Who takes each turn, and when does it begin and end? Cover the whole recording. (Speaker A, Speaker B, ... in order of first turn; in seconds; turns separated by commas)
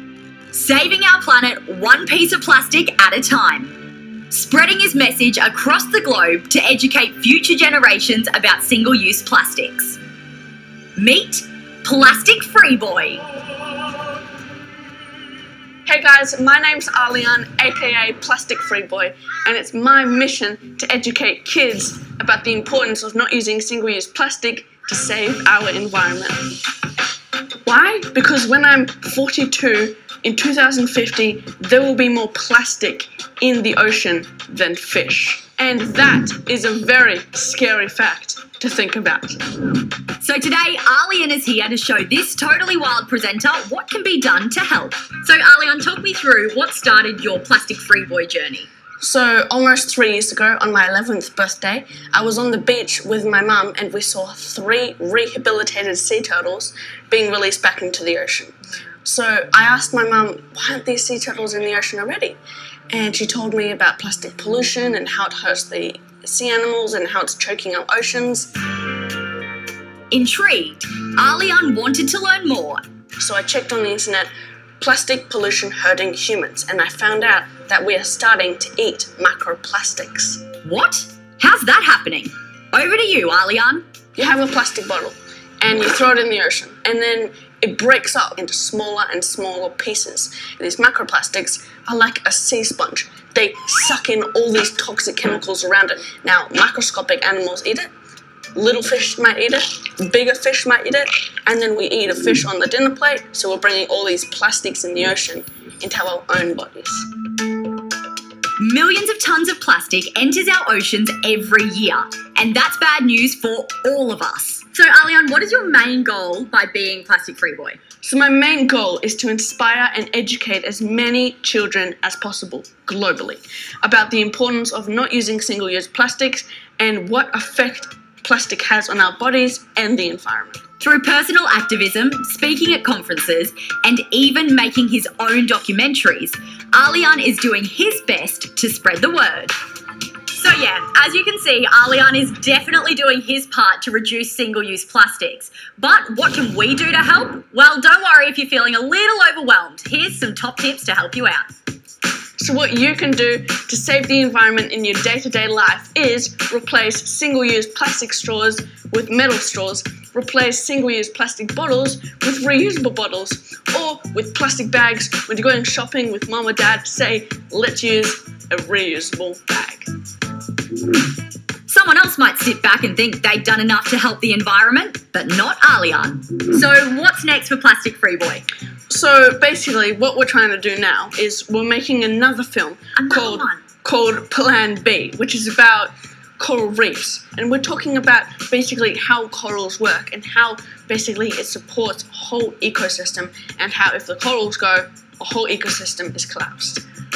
Speaker A: 0.5-3.7, Speaker A: 4.3-10.0, Speaker A: 11.0-13.2, Speaker B: 15.9-26.5, Speaker B: 27.7-39.4, Speaker A: 40.2-48.7, Speaker B: 49.0-62.4, Speaker B: 62.9-68.5, Speaker A: 70.1-72.8, Speaker B: 73.2-80.4, Speaker A: 80.6-83.8, Speaker B: 84.2-97.9, Speaker B: 98.5-107.1, Speaker A: 108.6-117.8, Speaker B: 118.0-130.6, Speaker A: 130.8-139.5, Speaker A: 140.3-151.5, Speaker B: 152.4-169.9, Speaker A: 171.7-178.5, Speaker B: 178.9-196.8, Speaker A: 183.0-183.6